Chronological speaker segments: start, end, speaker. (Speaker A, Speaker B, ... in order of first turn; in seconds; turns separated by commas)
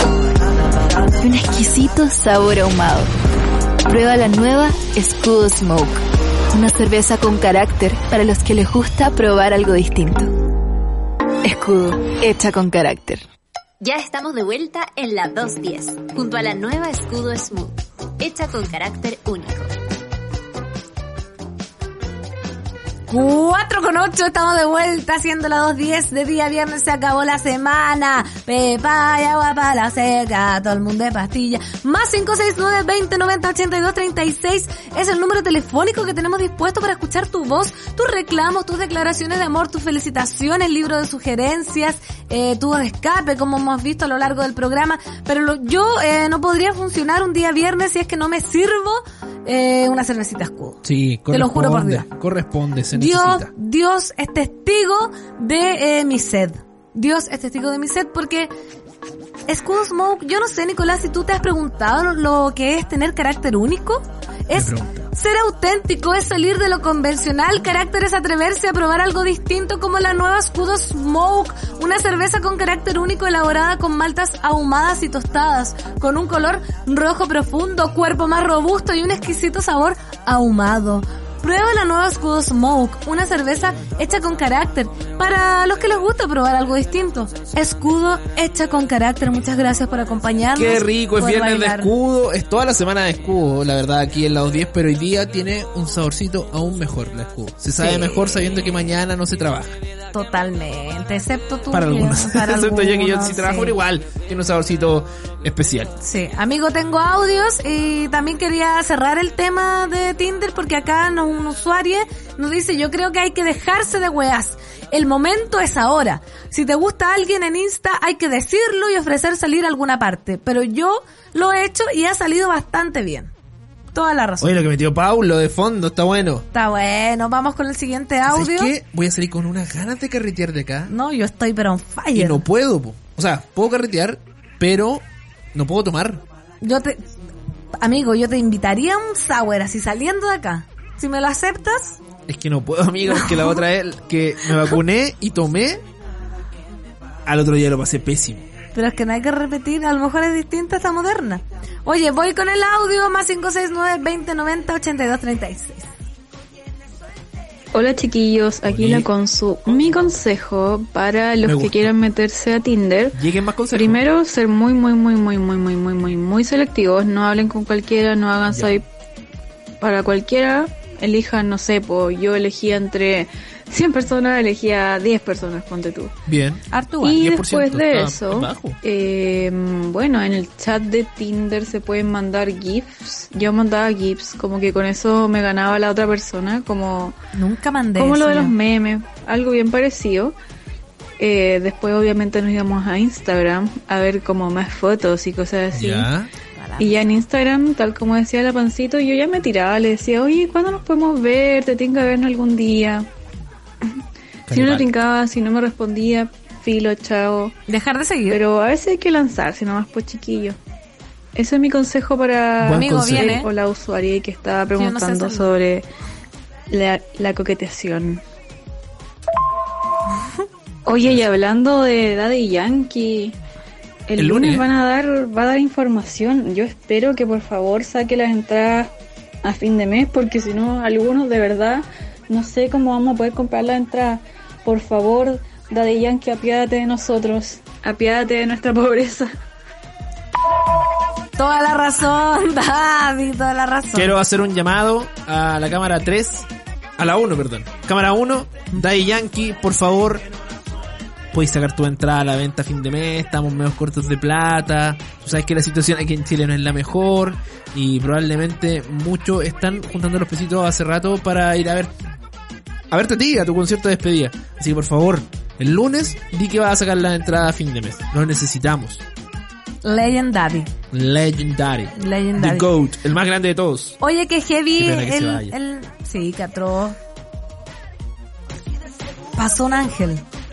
Speaker A: 1.2-3.1, Speaker A: 3.9-6.0, Speaker A: 6.5-10.3, Speaker A: 11.4-13.2, Speaker B: 13.8-19.7, Speaker C: 23.1-52.1, Speaker D: 50.9-53.5, Speaker C: 52.9-58.5, Speaker C: 59.5-91.9, Speaker D: 64.5-65.1, Speaker D: 90.5-99.8, Speaker C: 97.8-98.4, Speaker C: 100.1-103.7, Speaker D: 101.7-105.9, Speaker C: 106.0-123.3, Speaker C: 123.9-124.5, Speaker D: 124.4-126.5, Speaker C: 126.5-128.7, Speaker D: 128.3-130.9, Speaker C: 130.9-132.4, Speaker D: 132.2-136.2, Speaker C: 136.6-137.0, Speaker C: 137.8-142.0, Speaker D: 142.3-145.8, Speaker C: 143.1-143.6, Speaker D: 147.3-148.5, Speaker C: 148.7-155.9, Speaker E: 157.7-163.2, Speaker D: 158.6-159.1, Speaker D: 161.4-161.9, Speaker D: 163.1-164.0, Speaker E: 163.7-168.8, Speaker D: 168.5-168.8, Speaker E: 169.8-176.2, Speaker D: 176.3-178.8, Speaker C: 176.7-177.2, Speaker E: 177.0-187.2, Speaker C: 187.3-188.6, Speaker E: 188.0-190.4, Speaker E: 191.2-196.1, Speaker D: 195.7-196.3, Speaker C: 196.6-197.0, Speaker E: 196.8-203.1, Speaker D: 204.5-204.9, Speaker E: 204.5-207.6, Speaker C: 207.7-208.4, Speaker E: 208.3-210.6, Speaker E: 211.3-215.9, Speaker D: 212.6-213.4, Speaker C: 212.7-213.5, Speaker C: 214.8-215.5, Speaker E: 216.7-218.2, Speaker E: 220.9-223.3, Speaker E: 224.1-228.9, Speaker D: 224.2-224.7, Speaker E: 229.4-239.3, Speaker C: 241.4-244.2, Speaker D: 243.9-246.5, Speaker D: 247.0-250.2, Speaker D: 251.3-261.9, Speaker D: 262.9-269.0, Speaker C: 269.8-270.7, Speaker D: 270.9-274.0, Speaker C: 271.9-272.7, Speaker C: 274.0-277.0, Speaker D: 274.8-275.6, Speaker C: 279.4-280.2